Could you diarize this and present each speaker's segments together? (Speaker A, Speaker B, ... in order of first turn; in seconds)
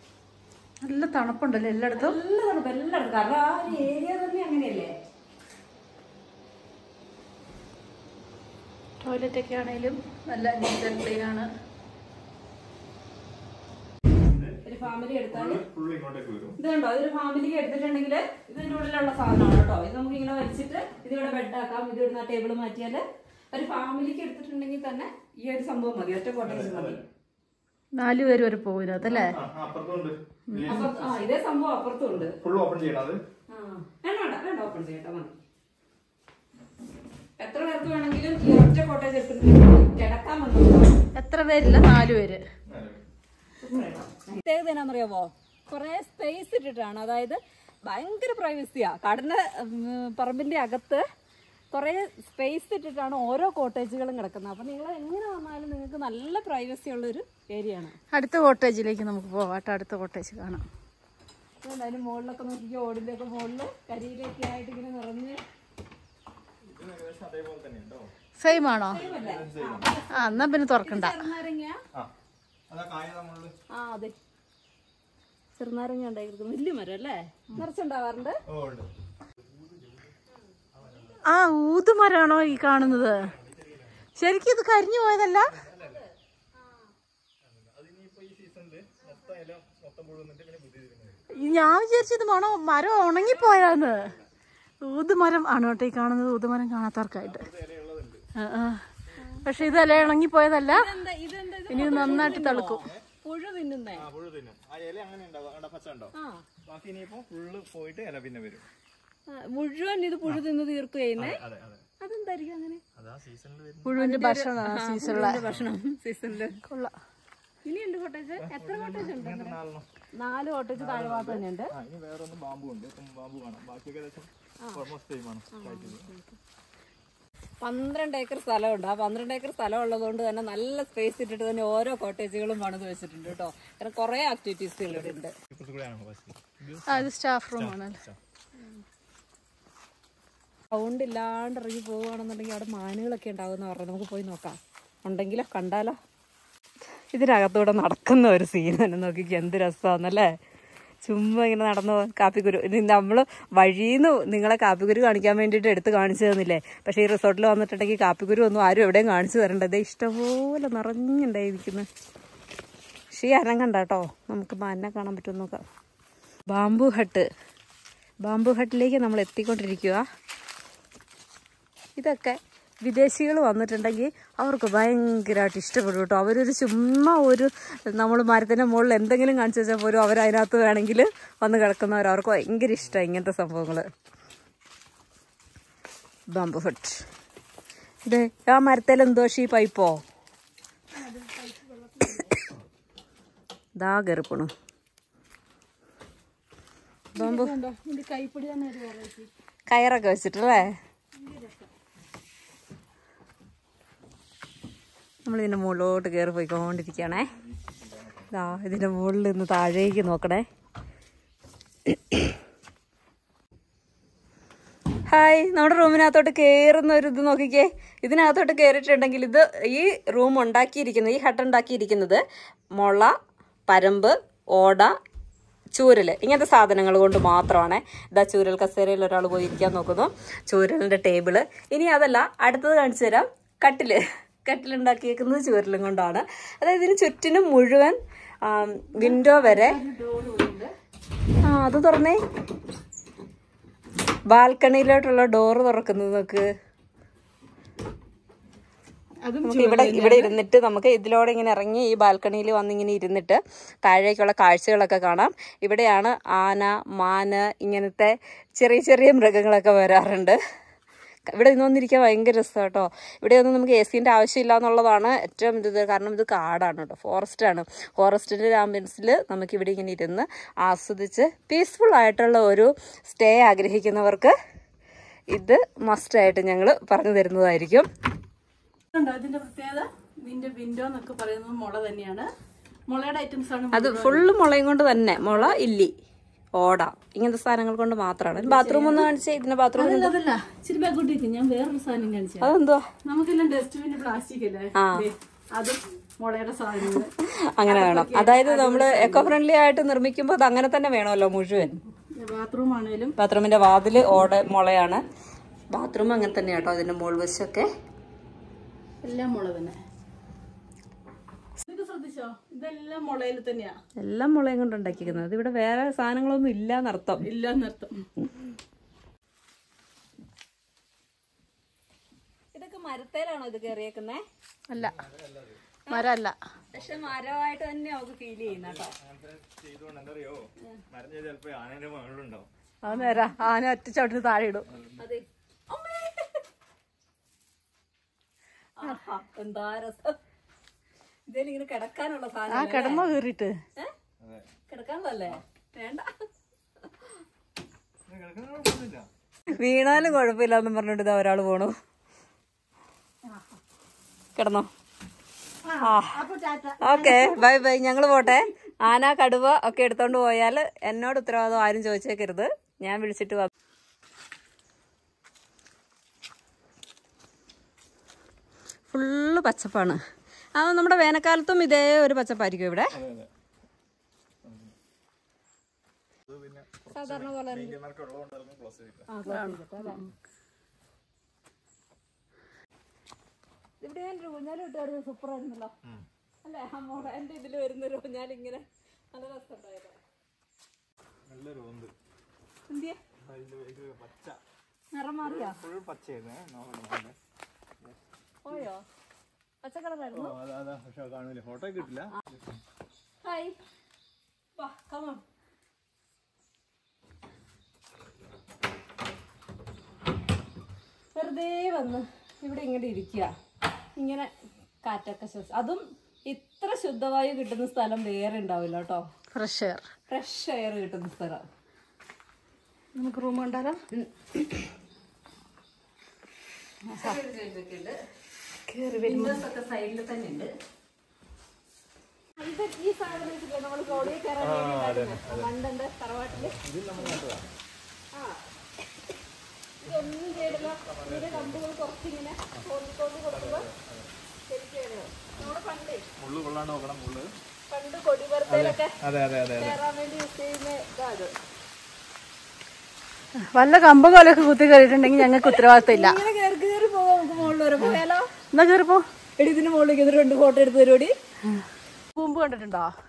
Speaker A: 0.8-2.1, 9.0-11.5, 28.0-29.4, 41.1-42.4, 58.1-60.6, 68.4-69.0, 70.1-71.2, 81.2-83.3, 84.2-85.5, 91.3-94.1, 94.8-97.5, 98.3-98.8, 99.4-100.9, 101.7-102.8, 113.8-115.4, 116.6-116.9, 136.9-138.0, 190.9-192.4, 197.1-199.3, 201.1-201.7, 238.9-240.7, 249.2-250.3, 278.9-282.3, 282.9-284.3, 288.4-289.1, 289.8-292.5, 293.0-299.3, 302.1-303.1, 309.0-309.8, 311.6-313.8, 317.2-318.1, 324.7-324.9, 325.9-326.4, 332.8-334.7, 342.5-343.6, 355.6-357.5, 379.3-380.0, 419.3-419.8, 422.9-423.8, 426.9-427.1, 428.8-429.4, 453.5-456.2, 458.5-459.0, 462.1-462.9
Speaker B: 1.9-4.9, 14.6-15.6, 16.6-27.0, 30.7-32.3, 33.5-35.3, 37.4-40.9, 43.6-51.0, 51.7-58.0, 61.6-65.4, 68.5-71.8, 73.7-74.2, 75.6-78.4, 85.8-86.1, 93.3-93.6, 100.7-104.0, 106.1-106.4, 109.3-111.4, 112.0-112.8, 114.0-116.6, 117.6-119.6, 120.2-121.7, 125.5-126.4, 127.6-135.3, 140.7-146.0, 147.1-150.3, 151.0-161.9, 163.1-165.6, 166.5-167.3, 168.2-170.0, 172.0-183.8, 186.3-187.0, 188.0-190.0, 193.8-194.5, 197.2-197.5, 199.7-200.7, 205.2-207.3, 208.3-210.4, 211.9-212.2, 215.1-222.2, 222.8-223.1, 223.7-224.9, 225.7-239.8, 241.4-242.2, 244.3-246.5, 249.4-260.4, 261.3-274.3, 275.3-277.9, 283.7-285.9, 286.6-290.1, 292.4-292.8, 294.7-295.1, 297.2-301.8, 303.2-305.0, 305.7-307.7, 314.0-317.2, 322.5-324.2, 326.7-328.9, 332.9-333.1, 335.0-336.4, 338.8-340.2, 341.3-343.1, 344.7-346.1, 349.5-351.7, 354.4-354.7, 355.8-356.2, 356.8-363.5, 368.9-370.0, 370.6-372.9, 376.9-377.8, 379.1-380.0, 383.8-385.7, 386.4-389.9, 392.7-393.0, 394.9-395.6, 398.4-398.8, 399.6-400.4, 403.2-403.6, 404.6-405.2, 411.1-413.3, 414.0-414.3, 414.8-419.0, 420.1-421.5, 423.9-424.4, 426.9-428.0, 428.8-430.5, 432.4-436.6, 438.1-438.4, 439.8-443.7, 444.5-446.1, 447.7-449.0, 449.6-451.3, 455.1-458.3, 459.4-461.1
Speaker C: 14.2-14.6, 15.3-16.6, 26.4-27.1, 29.1-31.3, 32.1-33.2, 42.7-43.0, 66.6-68.1, 68.9-69.9, 72.7-73.5, 78.5-80.2, 80.7-81.2, 82.2-84.1, 85.5-86.0, 87.4-91.2, 93.6-94.3, 97.2-98.2, 101.8-103.0, 104.0-106.1, 106.7-108.7, 111.2-111.8, 112.9-114.0, 115.4-115.7, 118.4-119.9, 120.8-126.1, 134.9-138.2, 207.3-208.5, 324.8-325.6, 326.7-327.2, 328.4-332.5, 334.7-335.0, 344.2-344.5, 348.1-349.1, 372.9-373.3, 374.4-374.7, 376.2-379.1, 391.3-391.9, 393.2-394.4, 395.2-397.1, 400.1-402.6, 434.4-435.5, 436.3-437.5, 439.8-441.6, 443.3-444.1, 446.2-447.3, 448.5-449.8